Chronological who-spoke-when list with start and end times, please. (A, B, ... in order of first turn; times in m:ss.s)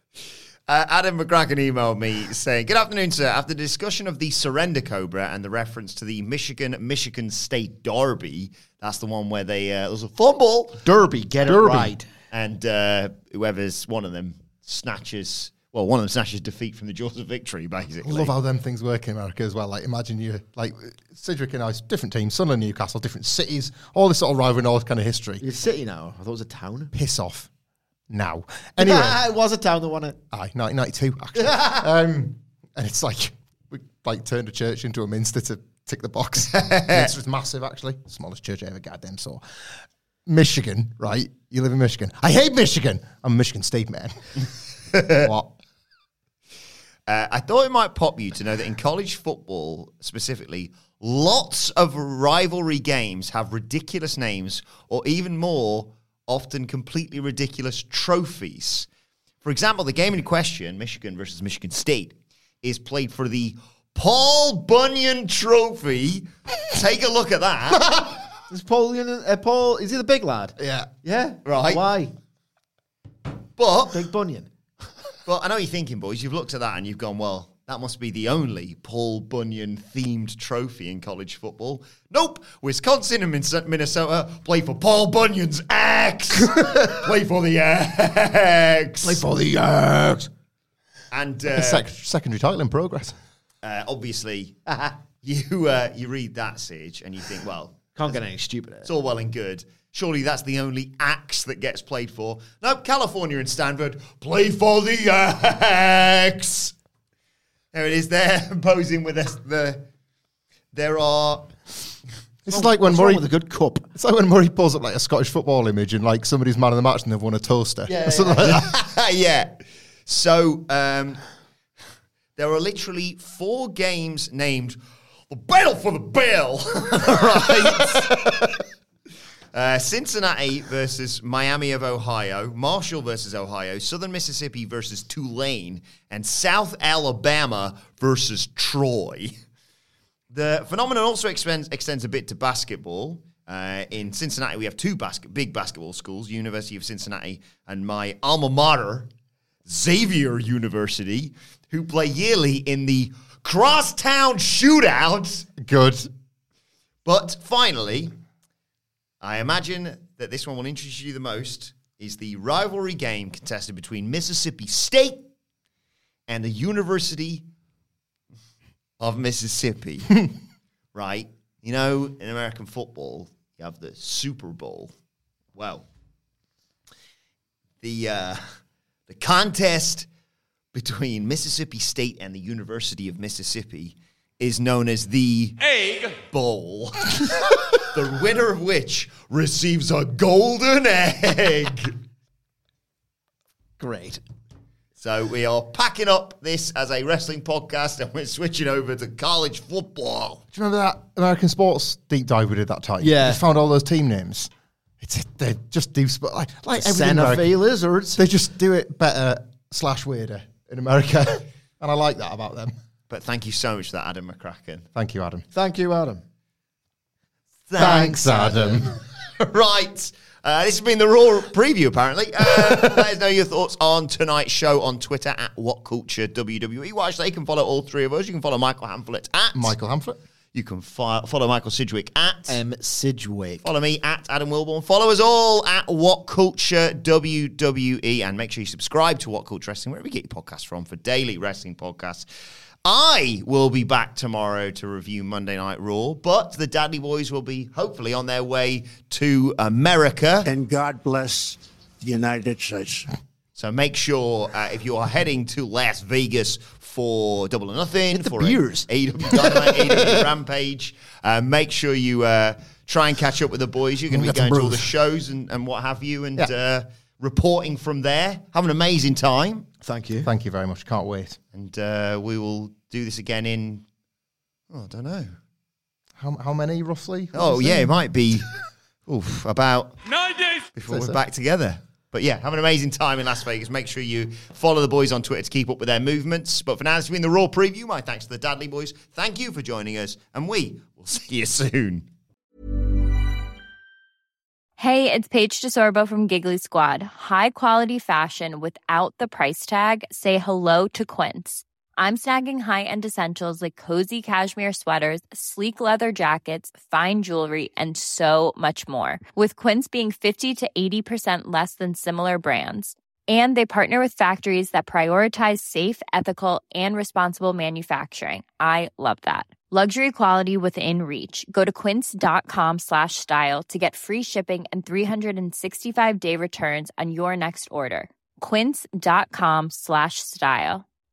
0:00.7-0:10.8 A
0:10.8-0:12.1 B
0:11.4-0:11.9 C
0:12.3-0:18.3 A
0:18.0-0:25.4 C
0:25.4-0:26.9 B
0:26.9-0:27.5 C
0:28.1-0:29.2 C
0:28.8-0:30.2 B
0:30.3-0:39.4 C
0:31.4-0:31.8 B
0:36.5-0:37.1 A
0:40.3-0:44.5 C
0:44.9-0:45.3 A
0:45.1-0:45.5 C
0:47.1-0:58.9 A
0:59.4-1:08.1 A
1:07.8-1:08.1 C
1:08.5-1:12.1 B
1:10.6-1:10.9 C
1:11.4-1:11.8 A
1:13.6-1:14.0 A
1:13.9-1:14.5 B
1:15.3-1:29.2 A
1:26.4-1:26.9 C
1:29.0-1:30.3 B
1:31.1-1:31.8 A
1:31.5-1:33.2 C
1:33.6-1:38.2 A
1:38.0-1:38.9 B
1:38.8-1:46.7 A
1:47.7-1:49.8 A
1:50.7-1:51.7 A
1:52.4-1:53.3 C
1:52.5-1:53.9 B
1:54.0-1:58.7 C
1:57.9-1:58.5 B
1:58.4-1:59.5 A
2:00.1-2:01.2 A
2:02.4-2:04.8 A
2:05.3-2:08.6 A
2:09.5-2:19.4 A
2:20.3-2:29.1 A
2:29.7-2:35.5 A
2:35.6-2:36.1 C
2:37.0-2:38.2 A
2:39.2-2:45.3 A
2:46.3-2:47.4 A
2:49.0-2:50.3 A
2:50.9-2:54.9 A
2:55.6-2:55.9 A
2:57.8-2:58.4 A
2:59.1-3:00.1 A
3:00.7-3:11.9 A
3:13.8-3:14.2 B
3:15.0-3:20.4 A
3:20.5-3:27.5 C
3:23.0-3:23.4 B
3:26.7-3:28.2 B
3:28.2-3:32.7 C
3:33.1-3:34.9 A
3:35.0-3:35.5 C
3:35.5-3:36.2 B
3:37.7-3:49.7 A
3:37.8-3:38.9 C
3:37.8-3:38.5 B
3:49.5-3:50.2 C
3:50.5-3:52.6 A
3:52.5-3:53.6 B
3:53.6-4:02.3 A
4:02.8-4:10.5 A
4:10.4-4:13.1 D
4:13.6-4:29.7 A
4:18.2-4:20.2 C
4:24.1-4:24.9 C
4:29.8-4:30.3 B
4:30.2-4:31.4 C
4:31.5-4:33.8 A
4:34.7-4:35.3 A
4:36.2-4:38.0 C
4:37.3-4:38.5 A
4:39.1-4:40.0 A
4:40.7-4:52.1 A
4:40.9-4:41.2 C
4:54.8-5:30.8 E